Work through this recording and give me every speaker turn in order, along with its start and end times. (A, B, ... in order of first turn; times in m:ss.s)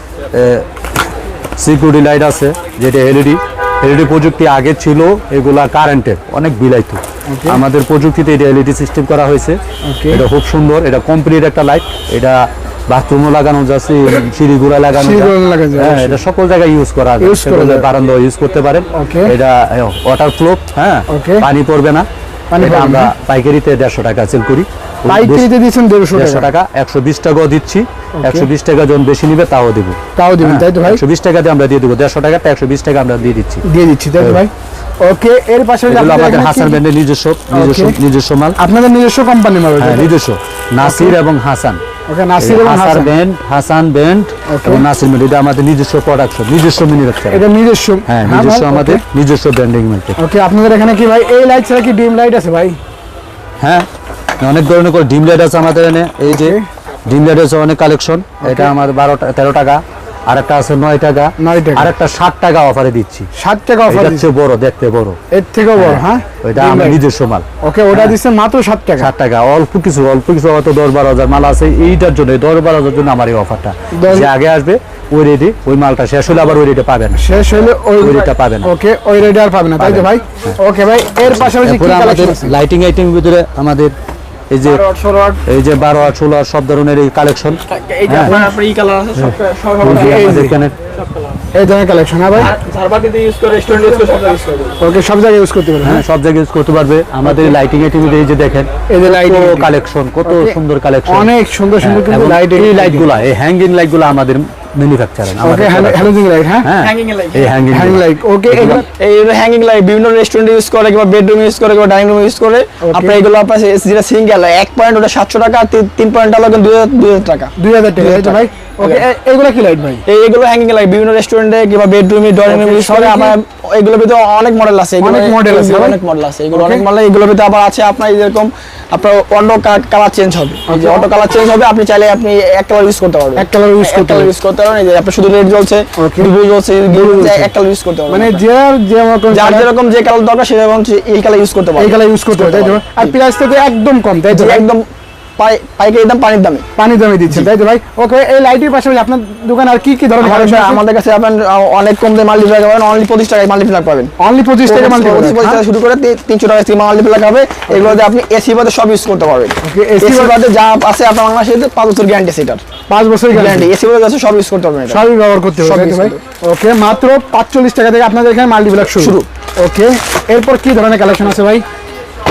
0:00.3-0:01.1 A
0:01.6-0:09.6 A
0:07.3-0:07.6 B
0:09.8-0:10.2 B
0:10.1-0:22.1 A
0:15.0-0:16.2 B
0:17.2-0:17.9 B
0:18.9-0:19.4 B
0:21.1-0:21.5 B
0:22.5-0:23.1 B
0:22.6-0:25.5 A
0:25.1-0:26.5 B
0:26.1-0:33.6 A
0:28.2-0:28.5 B
0:30.2-0:31.0 B
0:33.6-0:34.5 B
0:35.0-0:36.8 B
0:35.9-0:38.6 A
0:37.5-0:38.0 B
0:38.6-0:40.1 B
0:39.8-0:41.8 A
0:40.8-0:41.2 B
0:42.1-0:43.1 B
0:42.4-0:47.4 A
0:44.5-0:44.8 B
0:47.3-0:49.0 B
0:48.1-0:50.2 A
0:50.2-0:52.8 B
0:53.6-0:53.9 A
0:54.4-1:03.3 A
0:56.3-0:56.6 B
0:58.4-0:58.7 B
1:01.4-1:01.9 B
1:03.4-1:04.2 B
1:03.9-1:05.2 A
1:05.3-1:07.0 B
1:05.8-1:08.2 A
1:07.6-1:09.1 B
1:09.0-1:17.2 A
1:13.9-1:14.3 B
1:17.2-1:22.6 B
1:18.0-1:18.7 A
1:19.8-1:20.6 A
1:21.3-1:23.9 A
1:24.5-1:24.8 A
1:24.6-1:25.4 C
1:25.5-1:28.4 A
1:27.7-1:30.4 C
1:28.2-1:28.5 B
1:29.8-1:30.8 A
1:29.9-1:30.6 B
1:31.0-1:31.4 C
1:31.5-1:32.5 B
1:32.4-1:34.8 C
1:34.8-1:36.0 B
1:35.8-1:48.8 A
1:37.2-1:37.6 B
1:38.9-1:39.7 B
1:40.3-1:43.1 B
1:45.4-1:46.7 B
1:46.7-1:47.5 C
1:47.7-1:48.8 B
1:49.0-1:59.0 C
1:52.8-1:53.2 B
1:57.6-2:00.0 B
2:00.1-2:18.4 C
2:02.5-2:03.4 B
2:05.0-2:06.0 B
2:06.5-2:06.8 B
2:10.7-2:11.1 B
2:13.4-2:14.3 B
2:16.0-2:16.3 B
2:16.9-2:17.5 B
2:18.1-2:19.7 B
2:19.3-2:23.1 C
2:21.8-2:24.7 B
2:24.3-2:24.9 C
2:25.4-2:26.7 C
2:26.8-2:30.8 B
2:30.2-2:34.1 C
2:34.2-2:35.6 B
2:34.7-2:42.6 C
2:39.6-2:40.4 B
2:42.9-2:43.7 B
2:43.3-2:45.0 C
2:44.9-2:51.6 B
2:45.6-2:46.2 C
2:49.0-2:49.3 C